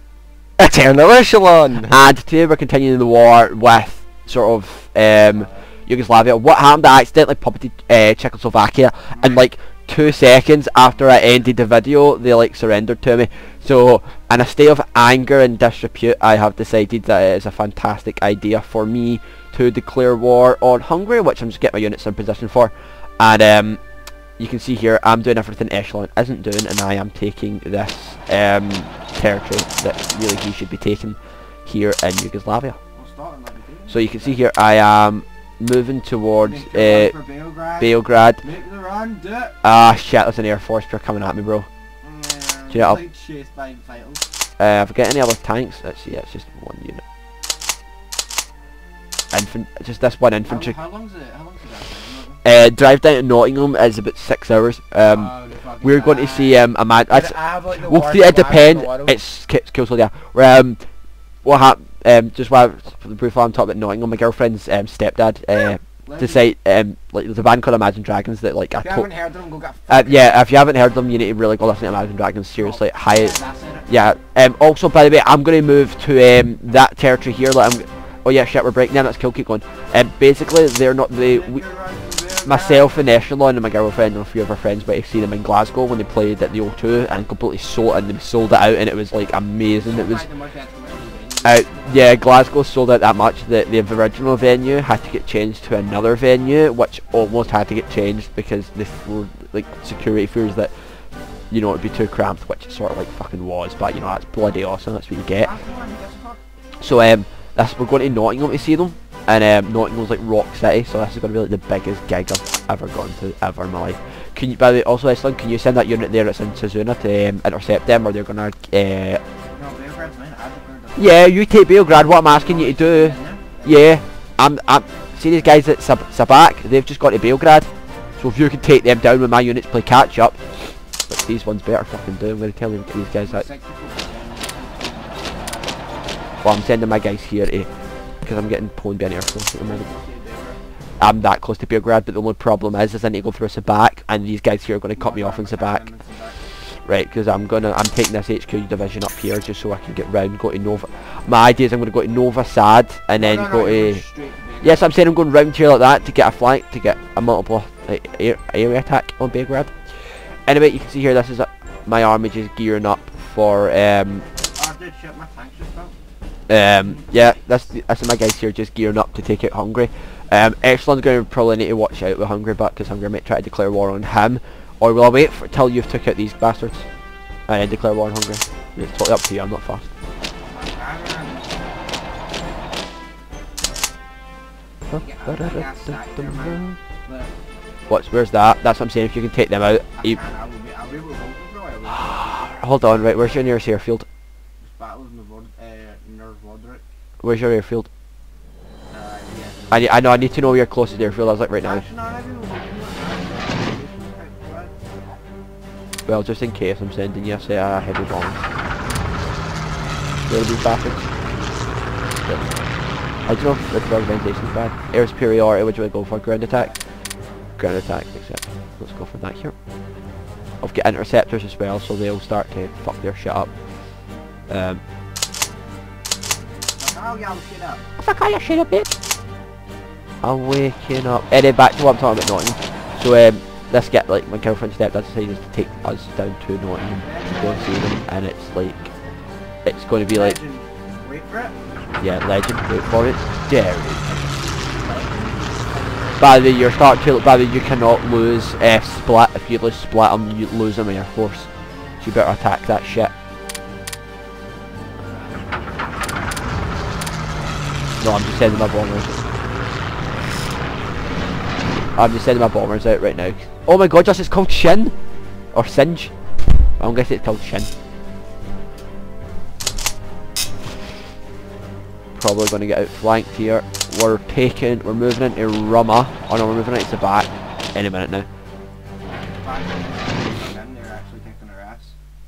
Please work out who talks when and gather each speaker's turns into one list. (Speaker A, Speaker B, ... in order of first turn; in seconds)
Speaker A: 0.6-1.9, 5.2-5.7, 9.1-9.4, 32.9-34.4, 36.4-39.5, 42.0-44.2, 50.4-52.4, 55.0-59.2, 66.0-66.5, 68.8-70.3, 72.6-73.9, 81.2-83.0, 89.7-92.1, 105.3-106.4, 119.5-121.3, 122.2-123.9, 133.2-136.4, 139.6-140.6, 144.9-146.5, 153.2-154.9, 164.5-165.9, 166.8-167.1, 180.4-182.1, 185.0-187.3, 190.0-192.6, 194.6-196.8, 198.9-200.3, 201.6-204.8, 210.7-211.6, 216.5-217.0, 226.7-227.8, 237.0-237.9, 240.1-241.6, 244.1-246.8, 255.0-259.8, 261.1-261.6, 279.1-281.9
Speaker B: 1.8-23.8, 24.4-32.8, 33.9-37.1, 37.8-38.4, 39.6-41.7, 42.7-43.0, 44.6-47.0, 49.3-50.7, 52.4-69.1, 69.9-81.6, 82.4-90.2, 91.4-105.5, 106.8-119.2, 121.0-133.4, 136.4-137.7, 138.2-139.9, 141.0-145.8, 146.7-154.0, 154.6-164.2, 166.5-176.9, 177.5-179.9, 184.9-186.8, 187.9-190.2, 192.6-194.1, 197.2-197.9, 199.7-201.8, 206.1-208.5, 210.3-211.1, 212.2-212.5, 213.2-216.7, 217.6-219.5, 220.6-223.5, 224.5-224.8, 228.0-228.9, 230.2-238.9, 239.7-240.4, 242.0-244.3, 246.2-251.5, 252.0-253.1, 258.0-259.2, 261.9-264.9, 265.5-266.1, 266.8-267.7, 272.1-278.3